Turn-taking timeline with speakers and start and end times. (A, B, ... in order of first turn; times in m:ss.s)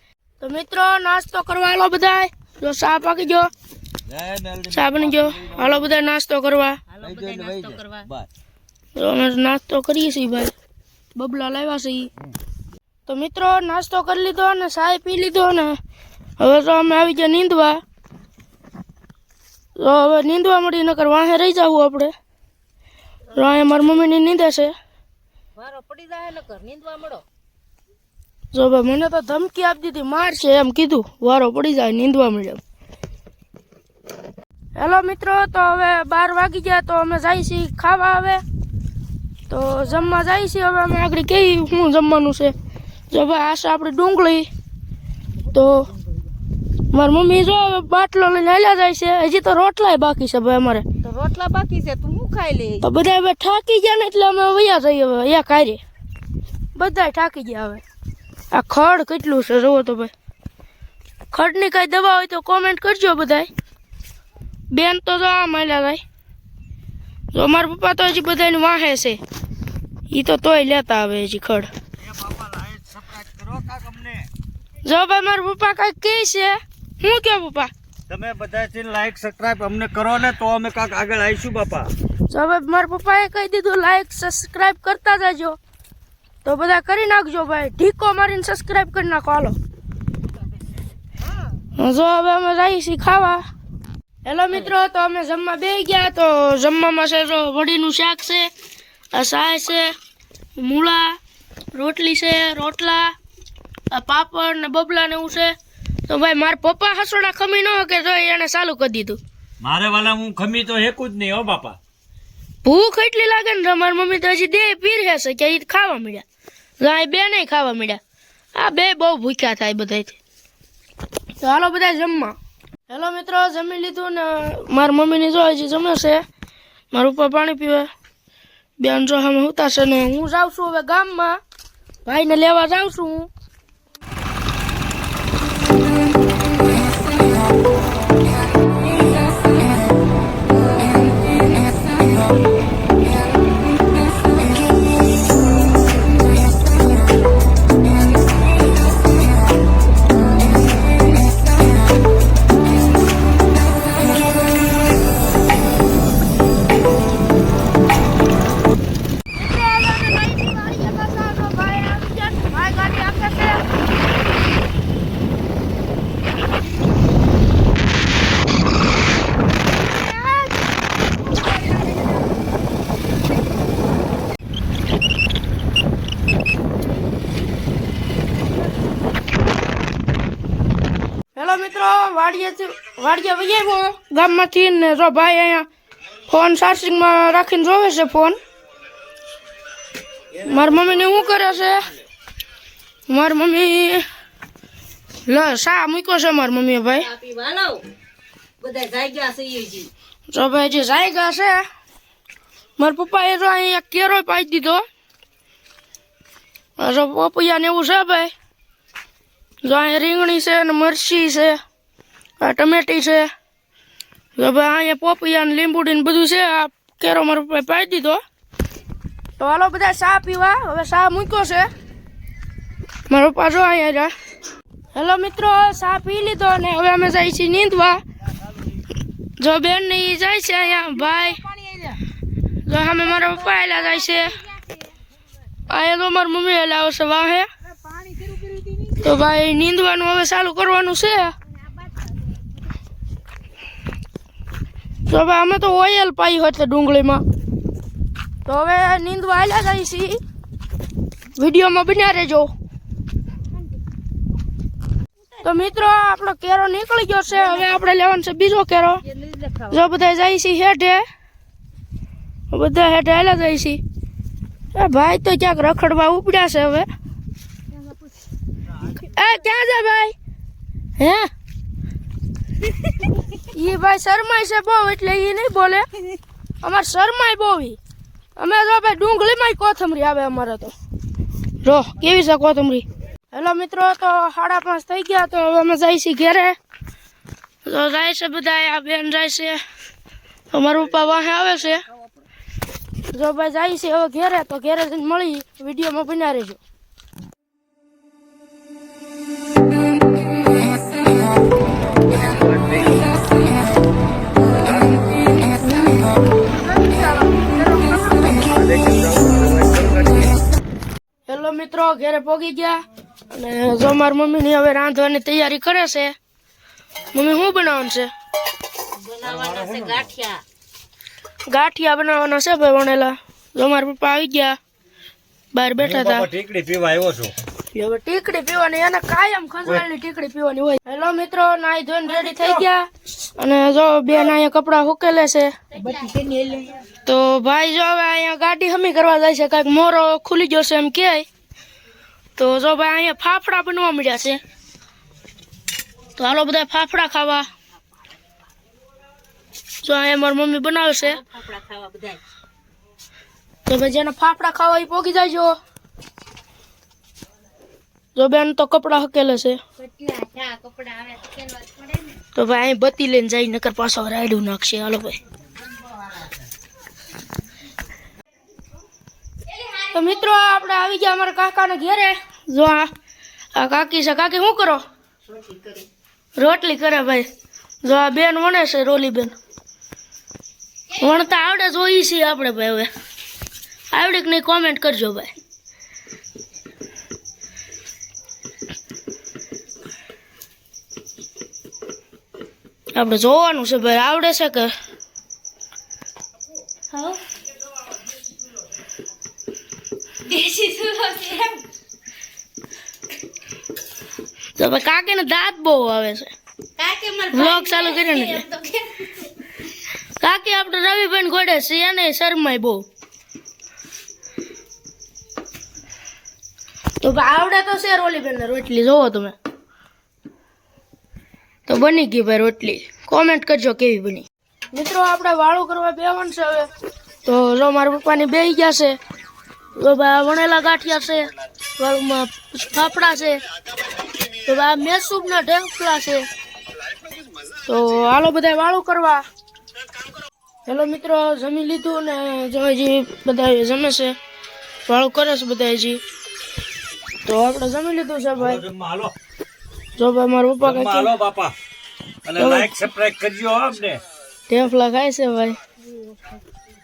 0:00.4-0:03.5 A
0:04.0-0:05.9 B
0:04.7-0:06.8 A
0:06.9-0:08.1 C
0:07.0-0:08.3 B
0:08.9-0:10.5 A
0:11.1-0:12.1 A
0:13.0-0:15.8 A
0:16.4-0:17.8 A
0:19.8-0:22.1 A
0:23.3-0:23.7 C
0:23.3-0:24.7 A
0:25.6-0:27.2 C
0:28.5-0:32.6 A
0:34.7-0:38.4 A
0:39.5-0:42.5 A
0:43.1-0:44.5 A
0:45.5-0:45.9 A
0:46.9-0:50.8 A
0:51.0-0:52.8 C
0:52.8-0:55.8 A
0:56.7-0:57.8 A
0:58.5-1:00.1 A
1:01.3-1:03.5 A
1:04.7-1:06.0 A
1:07.3-1:09.2 A
1:10.1-1:11.7 A
1:12.0-1:14.3 B
1:14.8-1:17.7 A
1:18.1-1:21.9 B
1:22.3-1:25.6 A
1:26.4-1:29.6 A
1:31.8-1:33.4 A
1:34.2-1:38.5 A
1:39.1-1:39.9 A
1:40.6-1:41.2 A
1:41.7-1:43.1 A
1:43.9-1:45.6 A
1:46.1-1:49.2 A
1:49.6-1:51.8 B
1:52.6-1:56.2 A
1:56.8-1:58.0 A
1:58.5-2:00.2 A
2:01.4-2:02.4 A
2:02.9-2:06.2 A
2:06.9-2:07.9 A
2:08.8-2:11.4 A
2:12.0-2:13.3 A
2:39.3-2:43.7 A
2:50.1-2:50.5 A
3:01.3-3:05.7 A
3:06.3-3:08.4 A
3:10.4-3:11.9 A
3:13.1-3:14.0 A
3:15.3-3:17.1 A
3:17.0-3:17.8 C
3:18.6-3:19.9 C
3:20.3-3:21.6 A
3:22.8-3:24.8 A
3:26.8-3:28.3 A
3:29.6-3:31.6 A
3:32.4-3:33.3 A
3:34.4-3:38.2 A
3:39.4-3:41.7 A
3:43.1-3:44.1 A
3:44.9-3:48.0 A
3:49.4-3:51.4 A
3:50.8-3:52.0 C
3:52.6-3:54.4 A
3:53.1-3:55.0 C
3:55.7-3:57.5 A
3:57.6-3:59.0 C
3:59.0-4:01.3 A
4:01.5-4:02.4 C
4:05.1-4:07.2 A
4:08.4-4:10.2 A
4:11.4-4:12.5 A
4:15.4-4:19.0 A
4:19.0-4:19.8 C
4:19.7-4:21.0 A
4:22.5-4:23.8 A
4:24.7-4:26.9 A
4:28.9-4:30.1 A
4:31.0-4:31.3 A
4:33.5-4:35.9 A
4:36.6-4:37.8 A
4:38.4-4:40.7 A
4:41.6-4:46.6 A
4:47.6-4:49.6 A
4:50.5-4:51.8 A
4:53.1-4:56.6 A
5:01.7-5:03.1 B
5:04.5-5:05.0 B
5:06.6-5:08.3 C
5:08.3-5:10.4 B
5:11.3-5:16.1 A
5:17.1-5:18.1 A
5:18.9-5:20.4 C
5:19.2-5:20.1 B
5:21.5-5:24.6 A
5:25.5-5:26.3 A
5:25.8-5:27.3 B
5:27.7-5:35.5 A
5:35.7-5:36.8 C
5:37.0-5:41.2 A
5:42.4-5:44.4 A
5:46.2-5:47.5 A
5:49.8-5:51.2 A
5:51.0-5:52.2 C
5:53.7-5:55.6 A
5:58.2-5:59.6 A
5:59.8-6:02.2 C
6:02.3-6:05.2 A
6:09.6-6:12.9 A
6:13.5-6:14.8 A
6:15.4-6:15.8 C
6:16.4-6:17.3 A
6:17.8-6:19.4 A
6:20.9-6:22.9 A
6:23.9-6:25.3 A
6:32.9-6:34.7 A
6:36.9-6:37.2 C
6:40.2-6:41.6 C
6:44.6-6:46.3 A
6:46.8-6:49.3 C
6:47.3-6:48.4 A
6:50.2-6:52.8 A
6:57.0-6:59.4 A
7:01.7-7:06.7 A
7:07.2-7:09.0 A
7:09.7-7:13.4 A
7:14.4-7:16.3 A
7:17.6-7:19.2 A
7:20.7-7:24.2 A
7:24.9-7:26.0 A
7:27.2-7:28.6 A
7:28.4-7:29.1 B
7:30.0-7:31.1 A
7:30.6-7:31.5 B
7:32.2-7:34.0 B
7:32.4-7:32.7 A
7:34.5-7:35.6 A